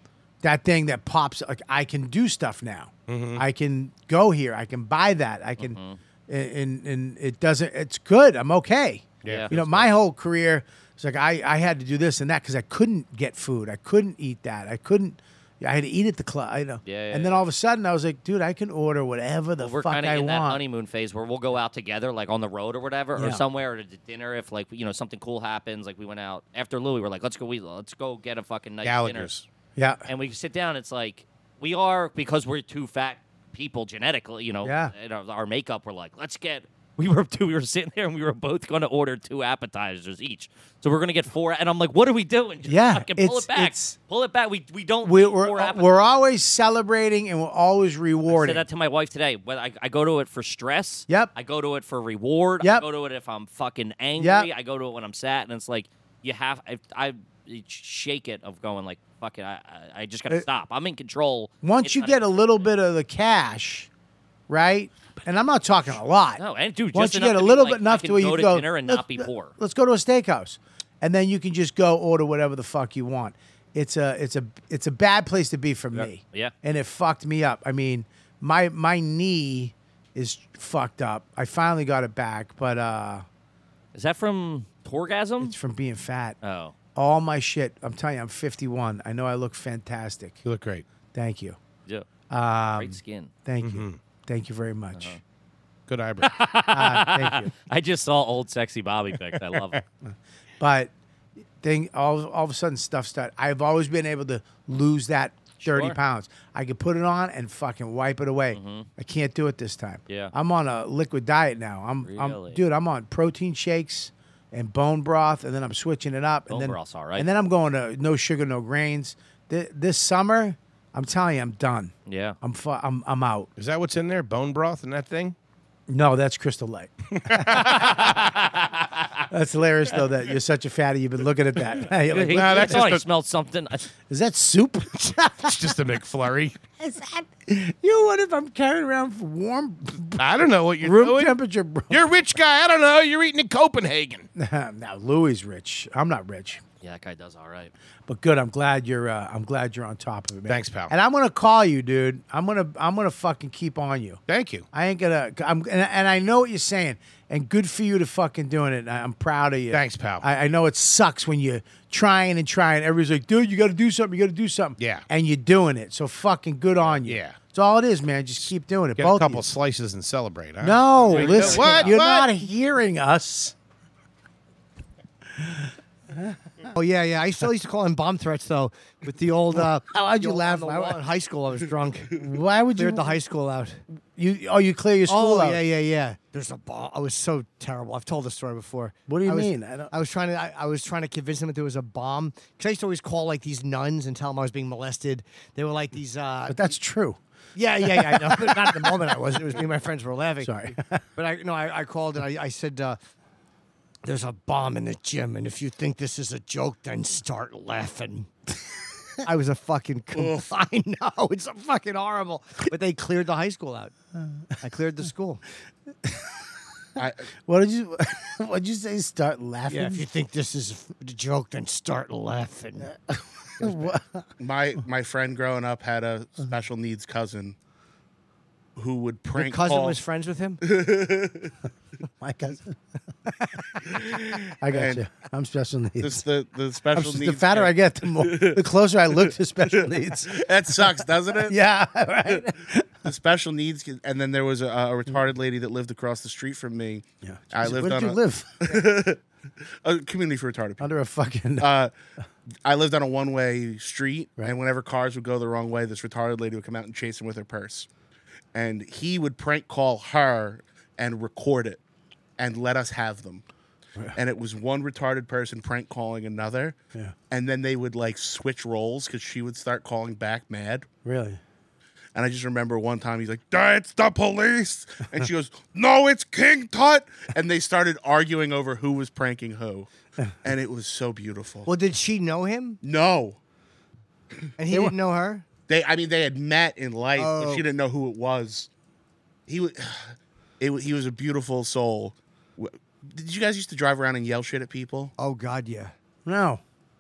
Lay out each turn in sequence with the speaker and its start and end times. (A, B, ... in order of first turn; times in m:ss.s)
0:00.4-0:20.6 A
0:03.1-0:03.4 B
0:05.6-0:06.0 C
0:09.2-0:09.9 B
0:09.2-0:09.5 C
0:16.8-0:17.4 C
0:19.6-0:29.3 C
0:23.2-0:23.4 A
0:28.8-0:29.5 B
0:29.8-0:30.0 A
0:30.1-0:45.9 C
0:34.6-0:34.9 A
0:42.6-0:44.0 A
0:45.0-0:48.6 A
0:48.3-1:02.7 C
0:52.6-0:52.9 A
0:54.2-0:54.5 A
1:01.6-1:03.9 A
1:04.5-1:06.4 A
1:06.4-1:09.5 C
1:06.9-1:23.2 A
1:16.0-1:16.5 C
1:24.0-1:25.6 C
1:25.4-1:26.4 A
1:26.4-1:26.7 C
1:27.0-1:30.4 A
1:30.4-1:30.8 B
1:31.1-1:31.6 A
1:32.3-1:35.2 A
1:32.8-1:33.3 C
1:33.6-1:34.0 B
1:35.9-1:36.3 B
1:36.2-1:39.8 C
1:36.7-1:37.5 A
1:40.6-1:40.9 A
1:41.6-2:03.5 A
1:45.6-1:46.0 C
1:48.5-1:48.9 C
1:52.0-1:52.6 C
1:56.5-1:57.3 C
2:02.1-2:02.4 C
2:03.6-2:05.4 B
2:05.9-2:08.1 A
2:07.3-2:08.1 B
2:07.7-2:09.1 C
2:09.3-2:13.0 A
2:12.1-2:13.8 C
2:12.3-2:13.1 B
2:14.1-2:15.7 A
2:15.4-2:16.6 B
2:16.8-2:20.2 A
2:20.2-2:21.4 B
2:20.8-2:22.1 A
2:21.9-2:24.3 B
2:24.4-2:26.6 A
2:26.8-2:27.7 C
2:28.1-2:34.2 A
2:30.5-2:30.9 B
2:34.3-2:34.7 B
2:34.7-2:49.5 A
2:39.7-2:40.2 B
2:44.8-2:45.0 B
2:46.8-2:47.4 B
2:49.0-2:52.3 B
2:50.6-2:53.5 A
2:51.2-2:51.9 D
2:55.4-2:56.4 A
2:56.8-3:02.1 D
2:59.6-3:01.0 A
3:02.2-3:03.2 A
3:02.8-3:03.8 D
3:04.2-3:05.6 A
3:05.1-3:16.6 D
3:09.1-3:09.9 A
3:16.5-3:17.2 A
3:17.6-3:20.6 D
3:17.8-3:18.9 A
3:20.4-3:21.0 A
3:21.2-3:23.0 D
3:24.0-3:28.3 D
3:29.2-3:33.9 D
3:30.2-3:30.4 E
3:34.6-3:35.4 D
3:37.0-3:37.2 E
3:37.4-3:40.1 A
3:39.7-3:42.9 D
3:43.6-3:44.2 A
3:44.4-3:47.6 E
3:48.8-3:50.0 E
3:49.4-3:50.6 D
3:50.6-3:51.5 E
3:52.2-3:52.7 A
3:54.6-3:56.2 A
3:54.7-3:55.0 E
3:56.0-3:58.6 E
3:56.9-4:00.3 A
4:00.3-4:01.6 E
4:01.5-4:02.9 A
4:03.0-4:09.2 E
4:07.2-4:08.8 A
4:09.8-4:10.9 E
4:10.8-4:11.7 A
4:11.6-4:11.9 E
4:12.6-4:17.9 E
4:18.5-4:21.8 E
4:22.4-4:23.4 E
4:24.2-4:26.8 E
4:27.3-4:30.9 E
4:31.0-4:31.4 A
4:32.2-4:39.9 E
4:40.4-4:41.7 E
4:41.7-4:42.8 D
4:42.8-4:43.4 E
4:44.6-4:45.4 D
4:45.7-4:48.7 E
4:47.2-4:47.6 D
4:49.5-4:55.1 E
4:55.2-4:55.9 D
4:56.2-4:56.6 A